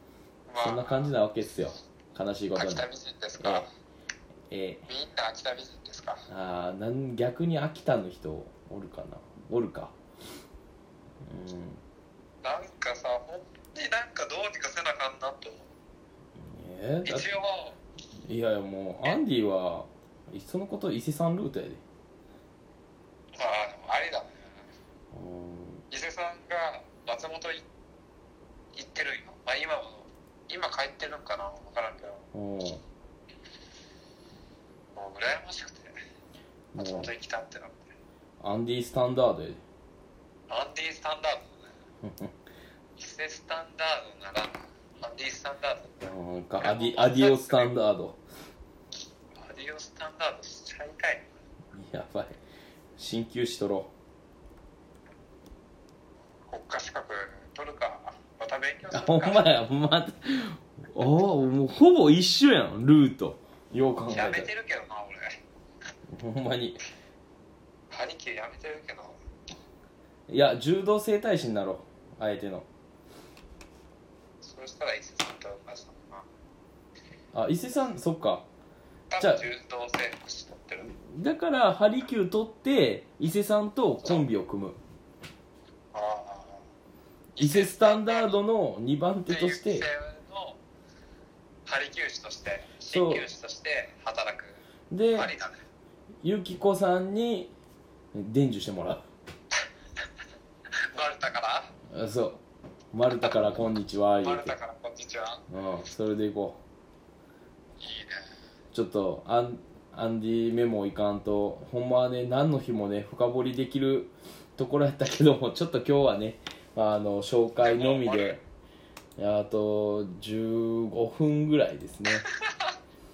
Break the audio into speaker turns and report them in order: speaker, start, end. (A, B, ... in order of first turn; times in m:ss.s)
0:00.5-0:01.1 A
0:00.6-0:02.8 B
0:02.5-0:03.7 A
0:03.4-0:03.7 B
0:04.5-0:04.8 B
0:04.9-0:06.2 A
0:06.3-0:09.9 B
0:11.2-0:11.8 B
0:12.4-0:15.7 A
0:16.4-0:17.3 B
0:17.0-0:17.8 A
0:18.3-0:21.8 B
0:23.4-0:24.4 A
0:25.1-0:25.8 B
0:25.9-0:27.6 A
0:28.7-0:32.2 A
0:32.3-0:32.8 B
0:35.0-0:35.9 A
0:36.7-0:37.1 B
0:36.8-0:37.9 A
0:38.4-0:39.6 B
0:40.5-0:41.7 A
0:42.0-0:42.3 B
0:43.0-0:46.1 A
0:46.0-0:48.2 B
0:46.6-0:47.7 A
0:49.4-0:51.3 A
0:51.7-0:52.4 B
0:53.0-0:53.9 B
0:56.5-0:59.4 A
0:58.9-1:04.5 B
1:04.1-1:05.3 A
1:06.1-1:06.8 B
1:07.9-1:09.2 A
1:10.3-1:12.6 B
1:14.4-1:16.2 A
1:17.3-1:18.4 B
1:19.1-1:20.9 A
1:19.2-1:19.4 B
1:20.9-1:24.8 B
1:25.9-1:26.6 A
1:27.4-1:29.9 B
1:27.4-1:28.4 A
1:29.3-1:30.6 A
1:31.6-1:34.6 A
1:32.9-1:33.2 B
1:34.9-1:35.3 B
1:35.1-1:35.6 A
1:36.2-1:37.5 B
1:38.1-1:39.0 B
1:40.9-1:41.7 A
1:41.9-1:42.4 B
1:42.9-1:44.5 B
1:44.2-1:45.4 A
1:45.5-1:46.6 B
1:47.8-1:48.2 A
1:48.7-1:58.4 B
1:57.6-1:58.4 A
1:59.2-2:02.2 B